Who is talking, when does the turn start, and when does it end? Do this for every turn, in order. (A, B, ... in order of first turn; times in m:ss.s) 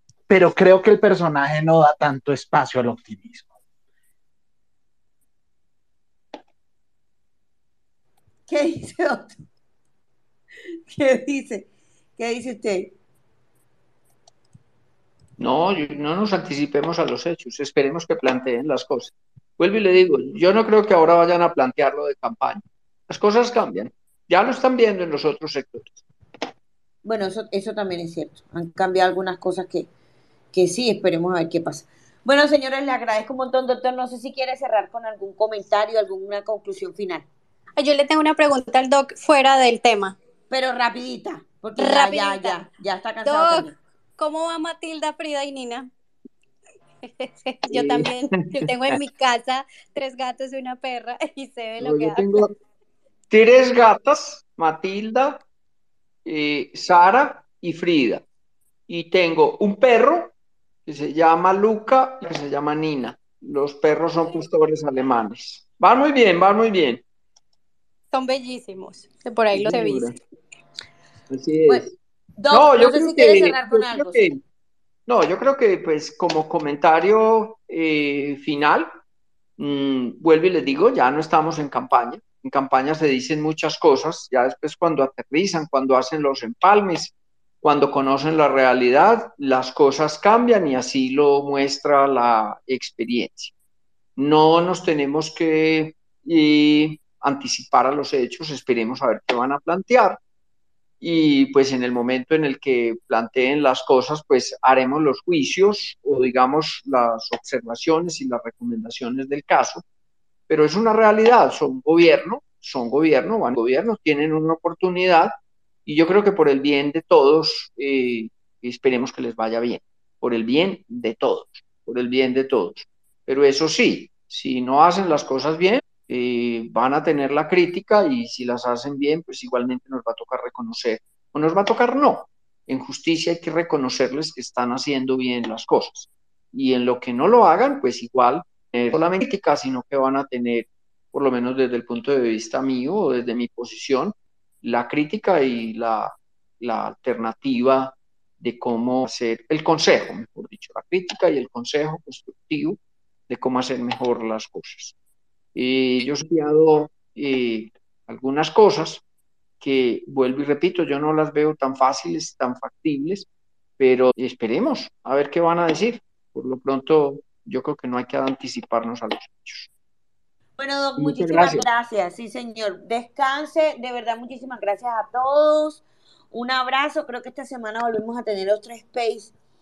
0:00.3-0:03.5 A
0:08.5-0:09.3 B
0:10.9-0:12.9 B
0:15.4-0:26.0 C
0:27.0-0:29.9 B
0:30.5-0:37.2 B
0:37.8-0:40.2 D
0:40.5-0:43.8 B
0:41.8-0:42.6 D
0:43.2-0:43.6 D
0:44.2-0:45.9 D
0:47.1-0:52.4 D
0:47.7-0:49.0 C
0:51.8-0:52.5 C
0:53.3-0:55.4 C
0:56.2-0:58.2 C
0:58.9-1:00.3 C
1:00.8-1:07.0 C
1:08.1-1:10.1 D
1:09.5-1:10.1 C
1:11.3-1:11.9 C
1:12.4-1:14.3 B
1:12.5-1:14.4 C
1:15.1-1:18.9 C
1:19.6-1:33.5 C
1:34.2-1:40.2 C
1:41.0-1:49.8 C
1:50.5-1:55.3 C
1:55.8-2:32.8 C
2:33.3-2:34.9 C
2:35.5-2:39.0 C
2:39.6-2:43.2 C
2:43.8-2:49.7 C
2:50.6-2:59.3 B
2:51.0-2:51.6 C